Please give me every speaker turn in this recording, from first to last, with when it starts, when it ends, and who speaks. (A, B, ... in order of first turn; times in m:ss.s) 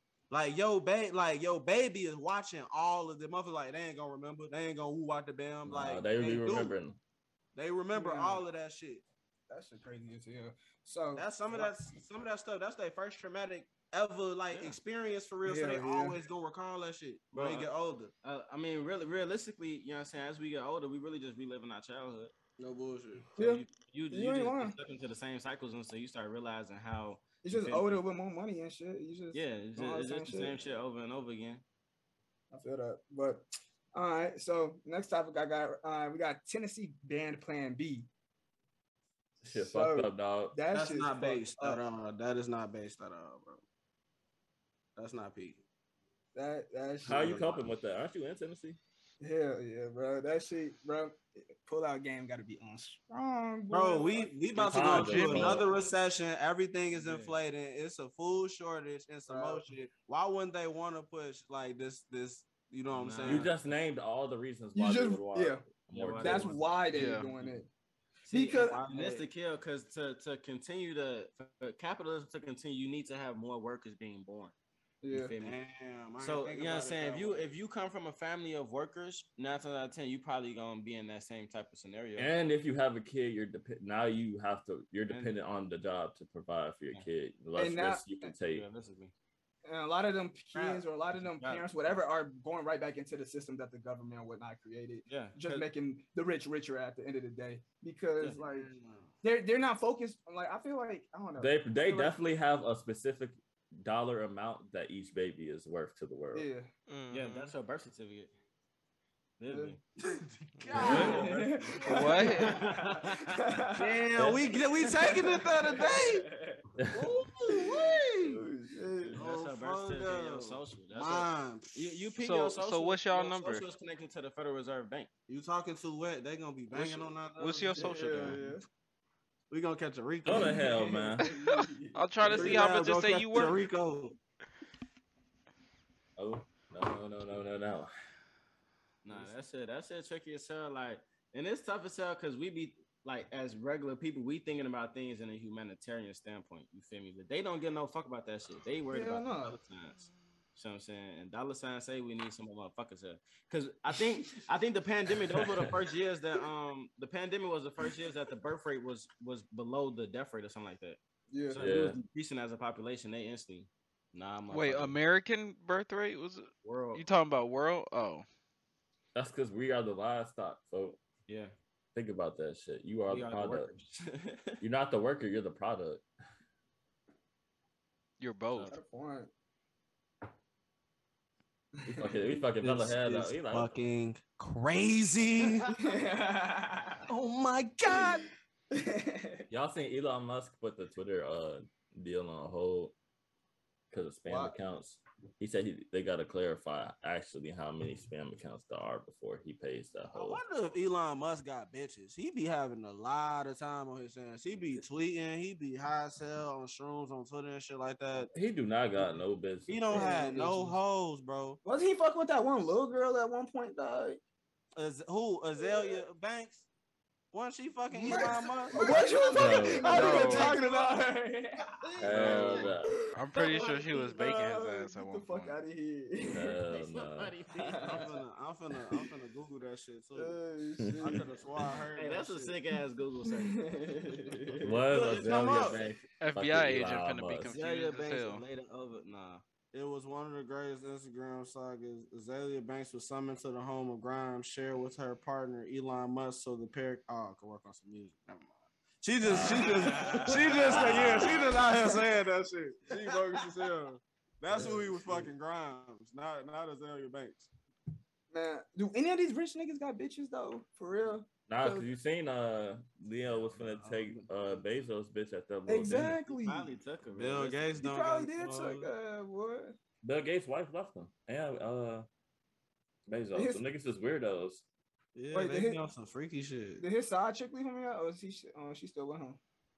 0:00.3-0:06.8 A
0:05.7-0:07.0 B
0:07.6-0:09.0 A
0:07.9-0:08.4 C
0:09.5-0:11.7 C
0:11.2-0:18.1 A
0:14.5-0:14.8 D
0:15.4-0:16.2 C
0:17.3-0:17.7 D
0:18.2-0:22.3 D
0:22.6-0:23.3 A
0:23.4-0:24.8 C
0:23.4-0:27.9 D
0:27.4-0:30.6 C
0:29.3-0:31.6 D
0:32.5-0:38.1 C
0:39.4-0:40.6 B
0:39.5-0:41.8 C
0:40.7-0:43.6 A
0:45.0-0:45.6 A
0:46.4-0:47.6 C
0:47.0-0:48.8 B
0:49.2-0:54.3 C
0:53.7-1:03.5 A
0:54.6-0:55.7 B
0:54.8-0:55.7 E
0:56.9-0:57.4 D
0:59.3-0:59.7 C
1:02.9-1:03.5 D
1:03.3-1:06.6 B
1:04.8-1:05.6 C
1:05.9-1:07.6 D
1:06.2-1:07.7 C
1:06.9-1:07.3 E
1:08.3-1:14.6 D
1:08.3-1:09.3 C
1:15.0-1:15.3 C
1:15.1-1:15.6 D
1:15.4-1:17.5 A
1:16.2-1:22.3 D
1:22.2-1:28.6 B
1:27.6-1:28.3 C
1:28.5-1:29.1 D
1:29.6-1:38.7 C
1:30.5-1:31.7 D
1:35.1-1:35.7 D
1:38.2-1:39.1 D
1:39.2-1:42.2 C
1:41.4-1:46.5 B
1:46.3-1:46.7 C
1:46.9-1:47.5 E
1:47.1-1:48.3 D
1:49.4-1:49.8 D
1:49.5-1:49.8 C
1:50.6-1:51.2 E
1:50.6-1:52.5 A
1:50.7-1:53.4 D
1:50.8-1:51.4 B
1:50.8-1:54.0 C
1:51.8-1:52.6 E
1:53.8-1:56.3 A
1:54.2-1:55.1 D
1:55.1-1:56.7 C
1:56.8-1:57.0 B
1:56.9-1:58.4 A
1:57.6-1:59.3 C
1:59.1-2:02.0 A
1:59.2-2:05.1 D
2:02.2-2:03.7 E
2:05.3-2:08.4 A
2:06.7-2:07.1 D
2:07.4-2:08.4 E
2:07.8-2:08.6 C
2:09.5-2:10.6 A
2:10.2-2:11.3 B
2:10.4-2:12.6 C
2:11.2-2:13.6 E
2:12.2-2:14.2 A
2:16.2-2:17.9 B
2:19.0-2:30.0 D
2:28.9-2:29.6 C
2:30.6-2:45.0 D
2:41.3-2:41.7 C
2:41.6-2:42.0 B
2:44.5-2:48.2 E
2:46.6-2:47.0 D
2:49.2-2:51.0 B
2:51.3-2:51.5 D
2:52.0-2:53.7 B
2:53.1-2:54.6 D
2:54.6-2:56.0 B
2:58.2-2:58.7 E
2:58.6-2:59.3 C
3:01.8-3:03.7 B
3:02.6-3:05.8 A
3:05.8-3:07.1 C
3:07.1-3:08.2 A
3:07.9-3:08.2 C
3:08.7-3:09.4 C
3:09.5-3:12.9 B
3:13.9-3:20.4 B
3:14.3-3:14.6 C
3:20.1-3:28.3 A
3:28.3-3:30.1 B
3:29.7-3:31.6 A
3:29.9-3:30.8 C
3:31.6-3:34.2 C
3:34.8-3:36.7 A
3:35.6-3:36.0 C
3:37.3-3:40.9 A
3:37.9-3:46.6 C
3:38.1-3:40.6 D
3:39.4-3:40.1 B
3:39.8-3:40.6 E
3:42.0-3:42.7 D
3:42.0-3:42.9 B
3:42.1-3:42.4 A
3:43.2-3:45.6 E
3:46.2-3:47.3 B
3:46.7-3:48.1 D
3:47.6-3:48.0 C
3:47.8-3:50.4 A
3:50.2-3:51.3 C
3:51.0-3:52.6 A
3:52.0-3:54.4 D
3:53.3-3:54.9 C
3:54.6-3:57.5 B
3:54.9-3:55.8 A
3:55.0-3:55.8 D
3:56.2-3:58.4 E
3:57.5-3:59.4 D
3:59.7-4:17.5 A
4:09.2-4:11.5 B
4:09.3-4:11.2 C
4:11.8-4:12.0 C
4:14.5-4:15.2 B
4:18.3-4:21.9 C
4:21.5-4:26.2 B
4:23.5-4:24.3 A
4:25.7-4:26.7 C
4:26.3-4:27.8 D
4:27.1-4:28.9 A
4:27.8-4:29.8 C
4:30.0-4:32.1 B
4:33.1-4:34.6 B
4:33.3-4:33.6 C
4:35.2-4:36.8 A
4:35.3-4:35.8 C
4:36.8-4:39.4 C